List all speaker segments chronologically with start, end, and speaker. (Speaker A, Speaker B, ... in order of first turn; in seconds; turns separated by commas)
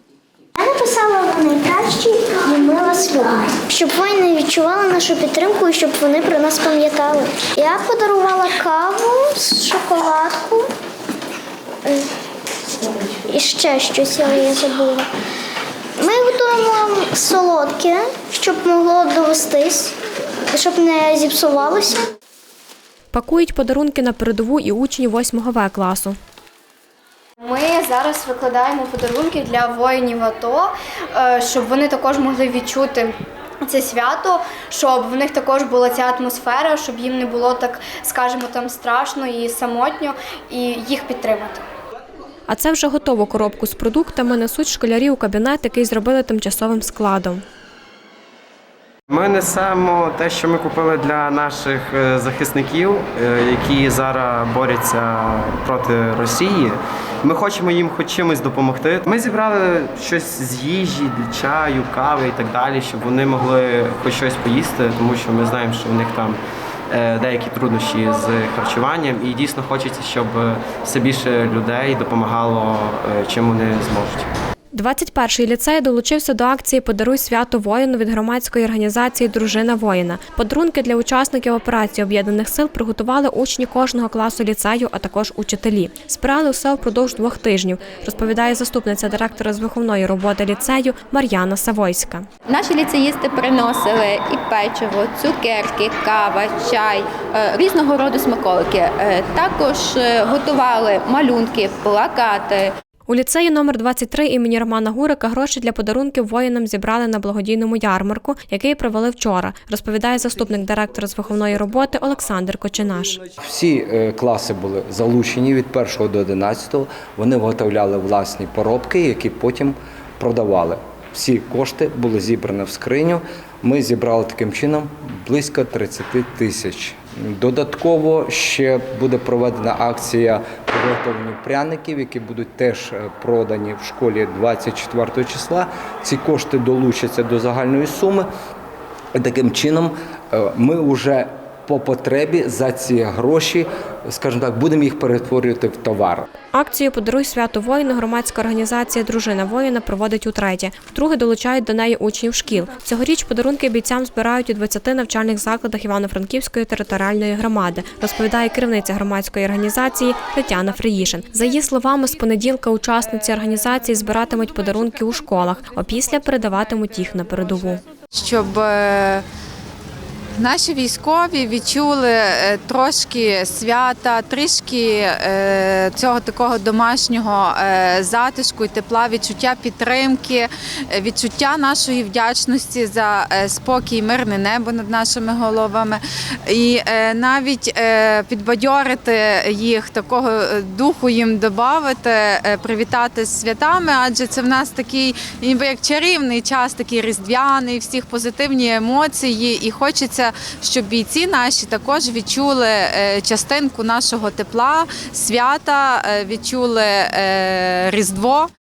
Speaker A: 0.6-10.7, Speaker A: 13.3-15.1, Speaker A: 16.0-19.9, Speaker A: 20.5-22.1, Speaker B: 23.1-26.2, Speaker C: 27.4-41.6, Speaker B: 42.5-47.4, Speaker D: 49.1-66.4, Speaker D: 66.9-74.3, Speaker B: 74.7-92.3, Speaker E: 92.5-102.7, Speaker B: 103.1-113.2, Speaker F: 113.4-138.3, Speaker F: 139.2-146.3, Speaker B: 146.5-167.8, Speaker G: 168.1-169.2, Speaker G: 170.4-208.5